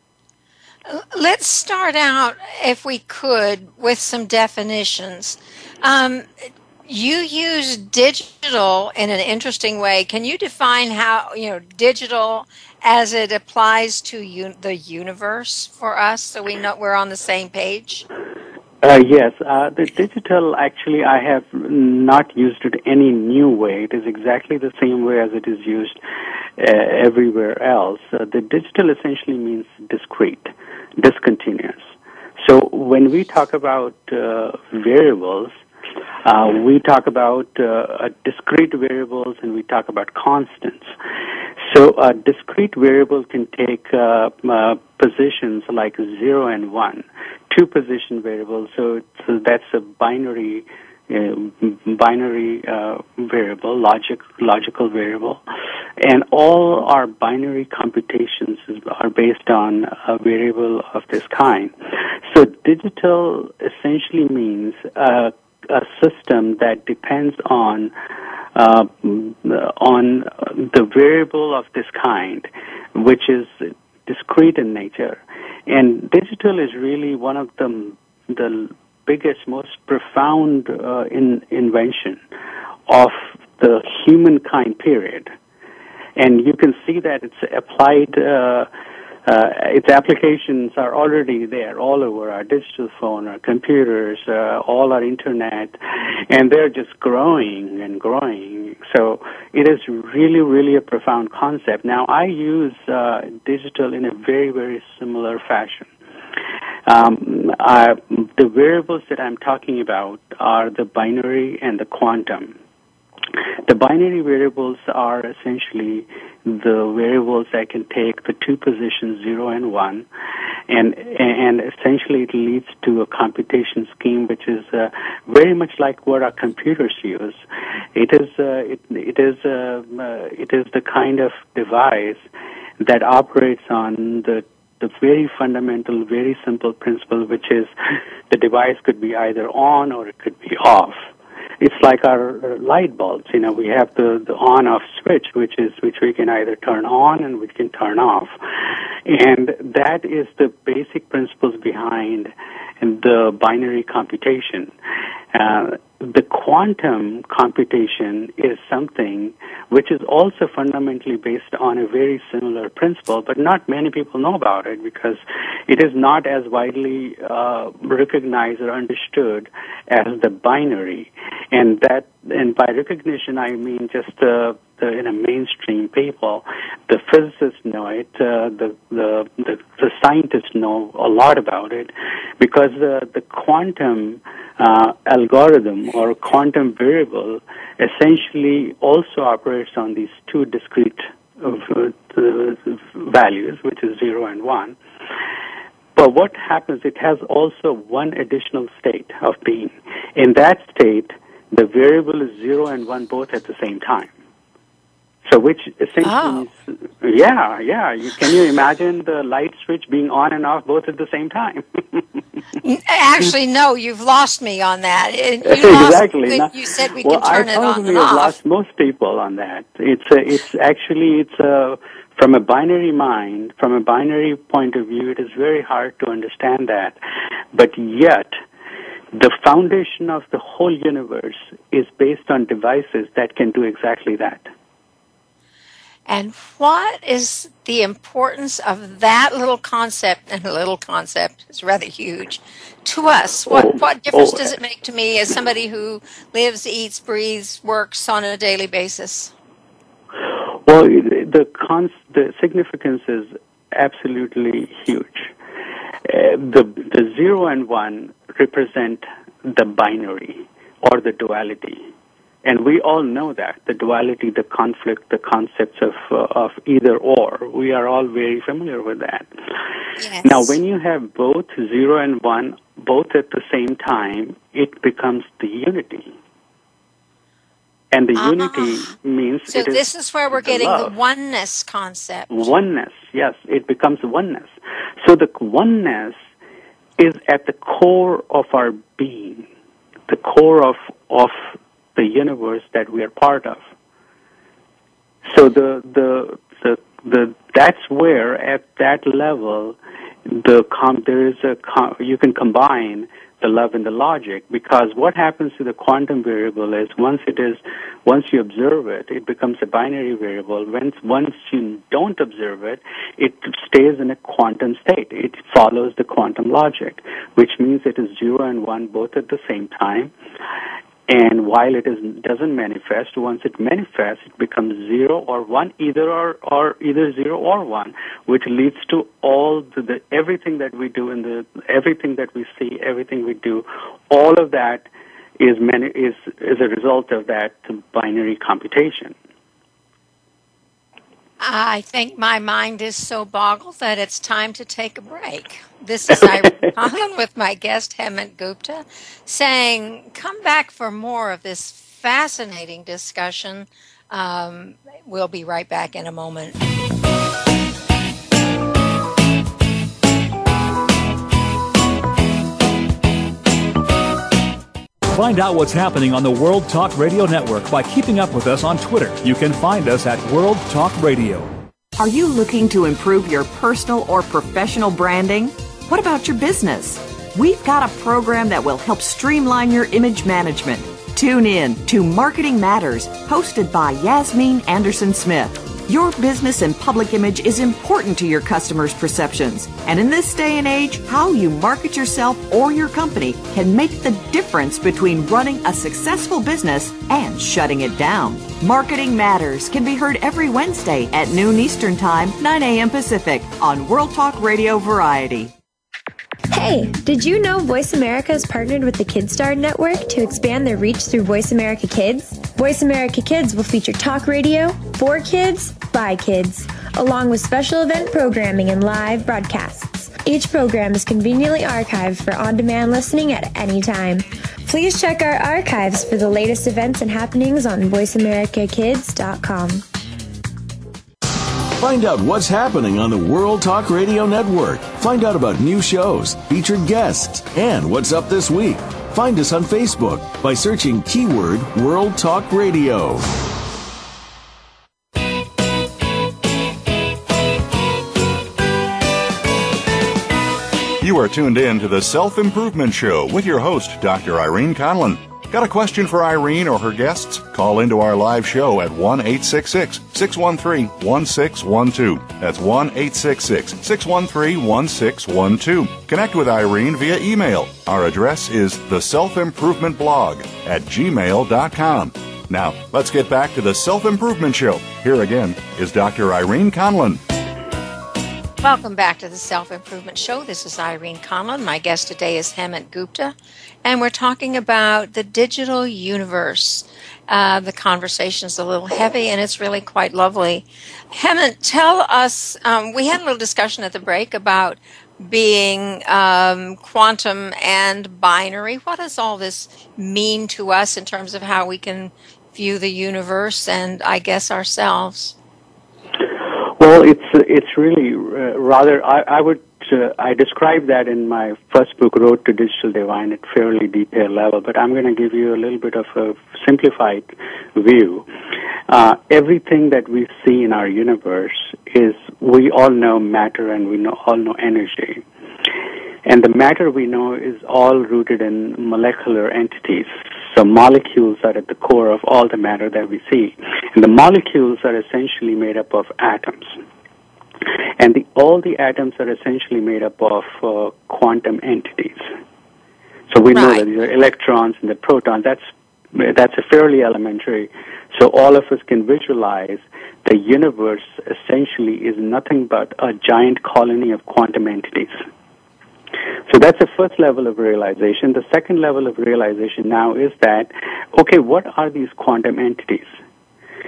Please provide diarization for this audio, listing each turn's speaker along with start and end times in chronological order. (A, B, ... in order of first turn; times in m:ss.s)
0:00.9-0:18.0 A
0:18.8-0:26.0 B
0:26.6-0:35.6 B
0:36.2-0:40.9 B
0:41.6-0:55.4 B
0:56.0-1:07.9 B
1:08.6-1:22.2 B
1:22.9-1:25.3 B
1:26.2-1:28.7 B
1:29.3-1:45.9 B
1:46.9-1:52.6 B
1:53.7-2:00.1 B
2:00.7-2:07.4 B
2:08.0-2:12.3 B
2:12.8-2:17.7 B
2:18.3-2:21.0 B
2:21.6-2:28.3 B
2:29.1-2:34.7 B
2:35.3-3:14.8 B
3:16.0-3:24.1 B
3:25.2-3:32.0 B
3:26.0-3:26.5 A
3:32.6-3:38.4 A
3:35.4-3:47.0 B
3:47.5-3:48.4 B
3:49.1-3:54.5 B
3:56.1-4:09.3 A
4:03.5-4:04.5 B
4:10.7-4:15.3 B
4:16.0-4:21.8 B
4:22.4-4:29.4 B
4:30.0-4:30.6 A
4:30.2-4:36.1 B
4:37.9-4:40.9 B
4:38.2-4:38.9 A
4:39.5-4:42.5 A
4:42.3-4:46.2 B
4:47.0-4:49.5 B
4:50.1-4:53.6 B
4:55.2-5:20.1 B
5:21.1-5:34.9 B
5:35.4-5:39.2 B
5:41.4-5:56.6 A
6:05.1-6:11.5 C
6:12.0-6:45.5 D
6:46.5-7:09.9 E
7:11.8-7:23.3 F
7:31.0-7:57.2 G
7:58.6-8:25.4 A
8:26.4-8:38.3 B
8:38.9-8:45.2 B
8:46.3-8:56.8 B
8:58.0-9:02.3 B
9:03.3-9:15.2 B
9:03.5-9:03.8 A
9:16.5-9:23.1 B